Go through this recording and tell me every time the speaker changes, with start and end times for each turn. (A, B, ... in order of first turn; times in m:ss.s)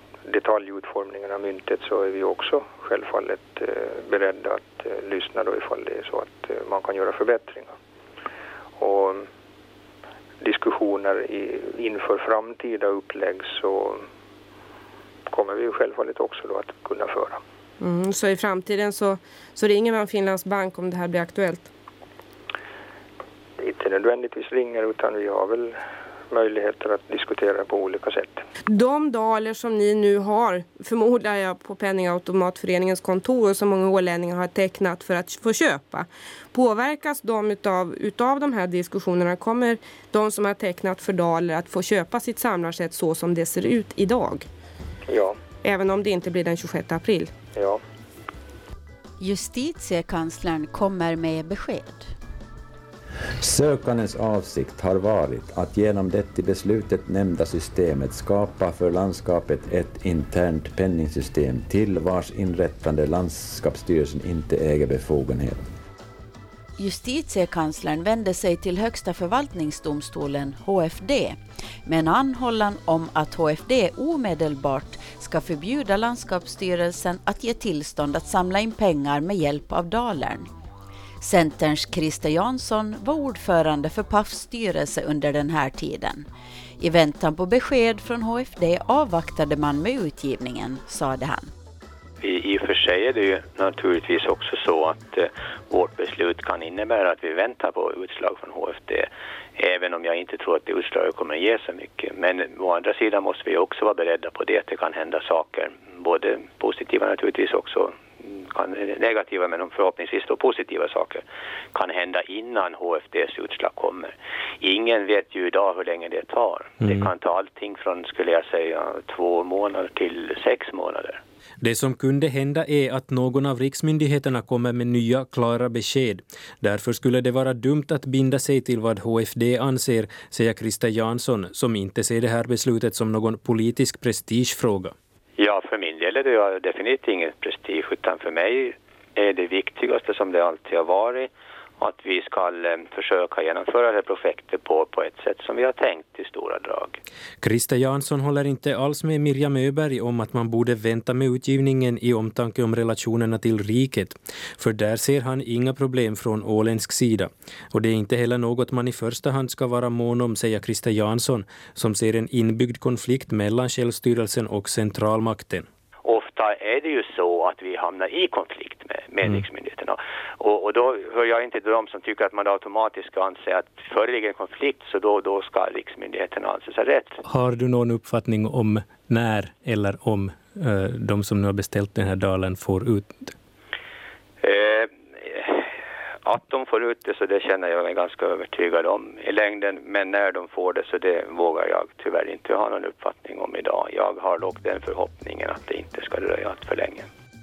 0:00.3-0:07.7 A
0:08.8-0:09.3 A
0:10.4-0:14.0 A
0:15.3-0:17.4 A
0:17.8-0:21.7 B
0:23.6-0:25.7 A
0:26.3-0:28.4 A
0:28.7-0:44.4 B
0:45.1-0:45.4 A
0:45.6-0:47.3 B
0:47.5-0:47.8 A
0:49.2-0:52.1 C
0:53.4-1:05.6 D
1:06.8-1:20.5 C
1:21.2-1:26.3 C
1:26.8-1:31.5 C
1:32.2-1:51.2 E
1:51.7-2:01.2 E
2:01.6-2:14.9 F
2:15.4-2:27.0 E
2:27.4-2:45.6 F
2:46.0-2:57.2 E
2:57.3-3:03.3 F
3:04.4-3:05.6 E
3:06.2-3:17.1 E